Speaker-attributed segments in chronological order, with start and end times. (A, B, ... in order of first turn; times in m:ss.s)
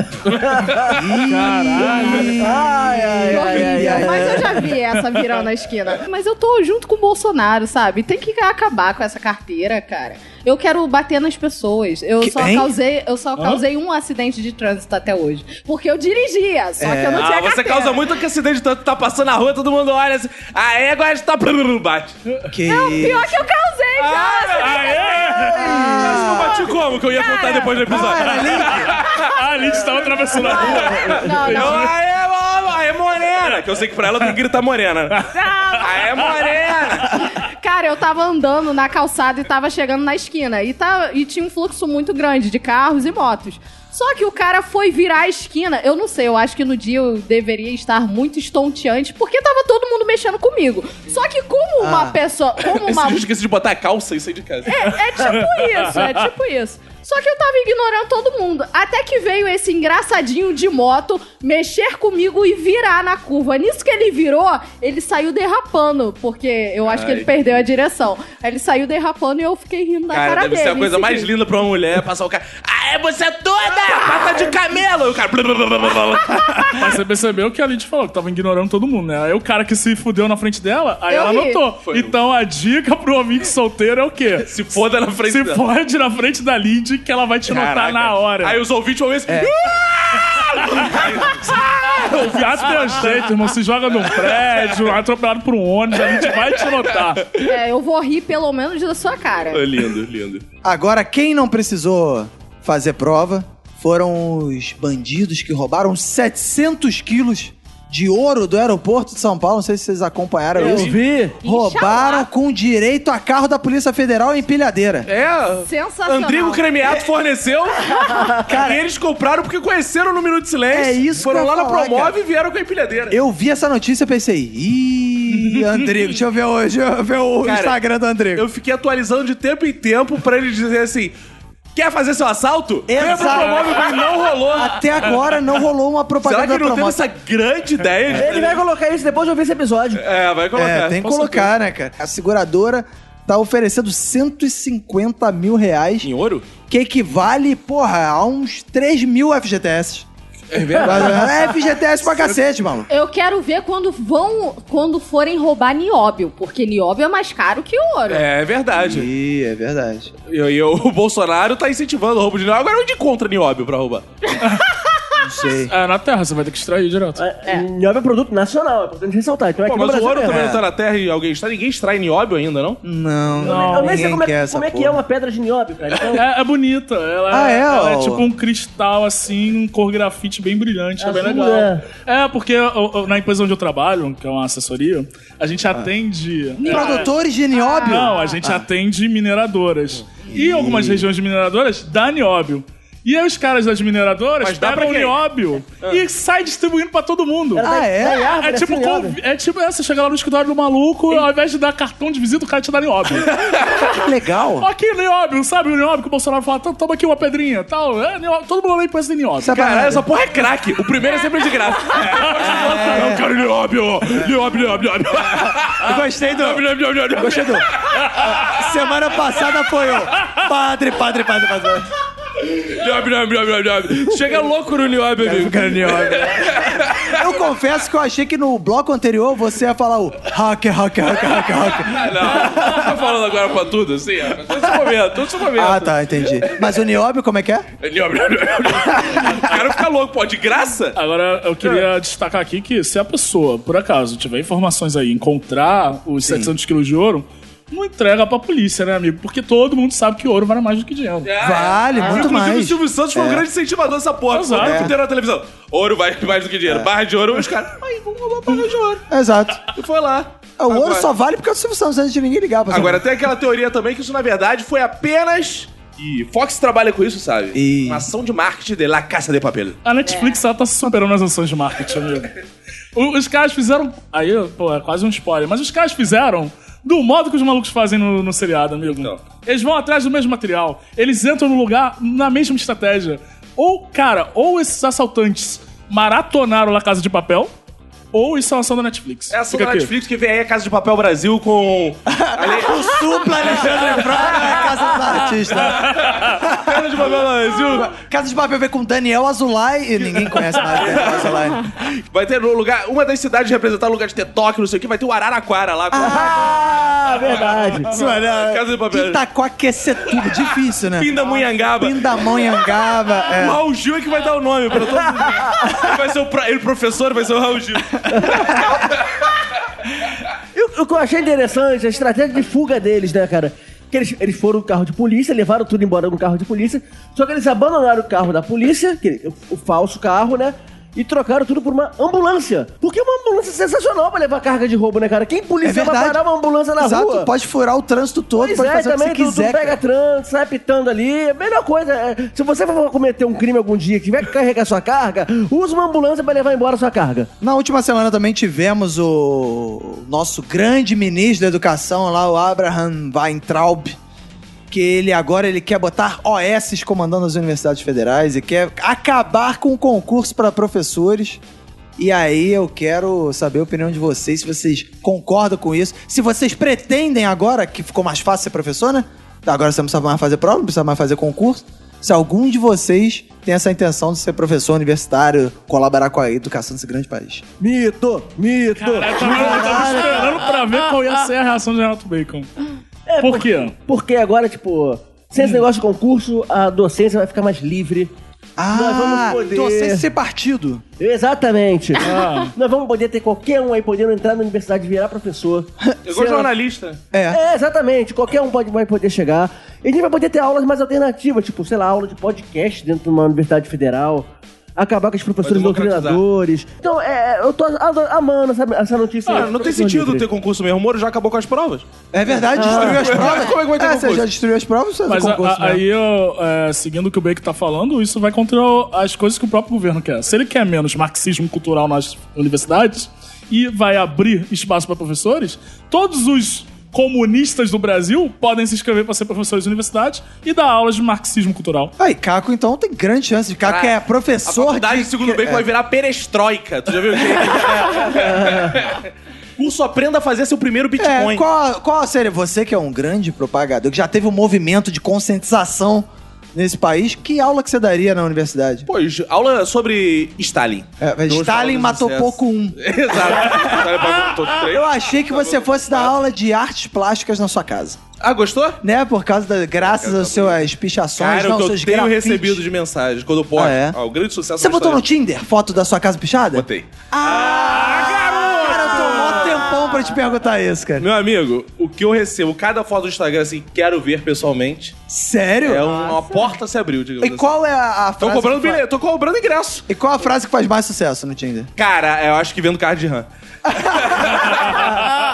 0:00.2-0:01.0 A
0:00.2-0:00.9 B
0:00.9-0:04.7 C
0:01.2-0:02.4 D
0:01.7-0:02.2 A
0:02.4-0:04.6 B
0:03.3-0:18.0 E
0:12.2-0:12.7 C
0:13.4-0:13.6 D
0:16.8-0:17.3 C
0:17.1-0:22.2 A
0:22.5-0:23.4 C
0:22.7-0:28.0 E
0:24.0-0:29.4 A
0:24.6-0:26.1 D
0:25.5-0:26.6 C
0:27.9-0:28.9 C
0:28.4-0:31.9 D
0:30.4-0:31.9 E
0:30.5-0:35.3 A
0:35.3-0:35.9 E
0:35.8-0:37.2 A
0:37.1-0:53.2 E
0:51.8-0:52.2 C
0:52.7-0:54.9 A
0:54.7-1:11.3 E
0:55.2-0:56.1 D
1:06.8-1:07.3 A
1:10.1-1:16.8 A
1:16.7-1:24.6 D
1:21.1-1:21.6 E
1:21.8-1:22.1 A
1:24.5-1:25.6 A
1:25.2-1:28.6 D
1:27.5-1:33.2 A
1:30.3-1:37.3 D
1:34.1-1:34.6 A
1:36.2-1:37.5 A
1:37.4-1:39.6 E
1:39.5-1:40.4 A
1:40.6-1:55.1 C
1:50.6-1:51.4 B
1:50.6-1:51.0 A
1:51.4-1:52.3 E
1:55.0-2:03.2 A
1:55.6-1:56.7 E
1:57.8-1:58.3 E
1:58.5-1:58.8 C
2:00.7-2:02.2 C
2:03.1-2:08.4 C
2:07.4-2:07.8 A
2:08.3-2:11.1 A
2:11.7-2:15.1 A
2:12.9-2:13.9 C
2:14.5-2:17.0 C
2:16.2-2:18.6 A
2:18.1-2:20.0 B
2:20.0-2:21.4 A
2:20.5-2:26.1 C
2:26.0-2:26.5 A
2:26.7-2:30.1 C
2:30.5-2:31.4 A
2:30.8-2:32.9 C
2:32.9-2:38.2 E
2:38.1-2:39.1 A
2:38.7-2:40.1 C
2:40.3-2:44.0 A
2:45.2-2:45.7 C
2:45.6-2:47.2 D
2:47.2-2:50.5 B
2:49.6-2:52.8 A
2:50.2-2:50.6 C
2:52.8-2:55.0 C
2:53.4-2:56.2 B
2:53.4-2:54.1 D
2:56.1-3:07.1 D
2:57.3-2:58.2 C
3:01.0-3:01.8 B
3:06.6-3:08.6 C
3:06.6-3:08.4 E
3:07.8-3:23.4 D
3:10.3-3:11.0 C
3:14.4-3:15.1 A
3:17.5-3:19.2 B
3:17.6-3:18.2 C
3:23.4-3:23.8 A
3:23.8-3:24.7 C
3:24.6-3:29.6 D
3:29.4-3:30.0 C
3:29.5-3:38.5 A
3:32.4-3:33.2 C
3:35.7-3:37.6 C
3:38.2-3:41.9 C
3:42.4-3:47.3 A
3:45.2-3:46.6 C
3:47.1-3:52.9 C
3:51.4-3:56.7 A
3:55.5-3:57.6 C
3:57.8-4:01.0 A
4:01.0-4:11.3 D
4:06.2-4:06.5 C
4:11.2-4:19.0 A
4:11.4-4:13.5 C
4:14.3-4:14.9 D
4:14.6-4:14.9 C
4:19.1-4:19.6 C
4:19.7-4:21.1 A
4:20.6-4:23.1 C
4:22.7-4:29.8 A
4:27.5-4:28.1 C
4:29.8-4:32.3 D
4:30.0-4:30.4 E
4:32.9-4:47.5 D
4:38.9-4:39.2 A
4:48.1-4:49.9 D
4:49.3-4:53.0 A
4:52.1-4:56.8 C
4:53.6-4:54.7 A
4:55.7-4:57.9 A
4:57.6-5:01.6 C
5:00.1-5:01.5 A
5:02.1-5:06.5 A
5:05.9-5:06.9 C
5:06.0-5:07.9 B
5:07.8-5:13.6 C
5:07.9-5:09.2 A
5:11.0-5:12.2 A
5:13.3-5:19.2 A
5:15.4-5:15.7 B
5:18.1-5:18.4 B
5:20.5-5:37.3 B
5:35.6-5:36.2 C
5:36.8-5:39.8 C
5:38.4-5:47.3 B
5:47.4-5:54.0 C
5:54.7-6:01.4 C
6:02.0-6:17.4 C
6:17.6-6:20.3 B
6:18.8-6:22.5 D
6:19.2-6:20.4 C
6:23.1-6:28.1 B
6:23.2-6:23.7 D
6:28.6-6:30.8 C
6:28.7-6:30.1 B
6:31.0-6:36.5 B
6:32.0-6:32.5 D
6:36.0-6:37.0 A
6:37.1-6:37.4 C
6:37.3-6:50.2 B
6:45.4-6:46.2 A
6:49.3-6:51.9 A
6:52.1-6:55.8 C
6:52.5-6:54.2 A
6:52.5-6:53.1 B
6:55.1-7:11.9 D
7:12.0-7:15.6 C
7:13.6-7:19.0 A
7:17.2-7:18.2 C
7:18.2-7:18.8 B
7:19.6-7:21.4 A
7:21.0-7:28.9 C
7:28.9-7:36.1 A
7:31.0-7:33.7 C
7:34.6-7:38.0 C
7:38.2-7:38.8 A
7:38.8-7:42.6 C
7:39.9-7:40.6 A
7:41.2-7:45.0 A
7:43.5-7:44.0 C
7:44.6-7:51.1 C
7:46.5-7:49.7 A
7:51.0-7:55.0 A
7:55.1-7:56.1 C
7:55.6-7:57.6 A
7:57.2-7:58.8 C
7:58.2-7:59.8 A
7:59.9-8:01.7 C
8:01.8-8:03.3 A
8:03.6-8:04.5 C
8:03.8-8:04.8 A
8:04.7-8:05.0 B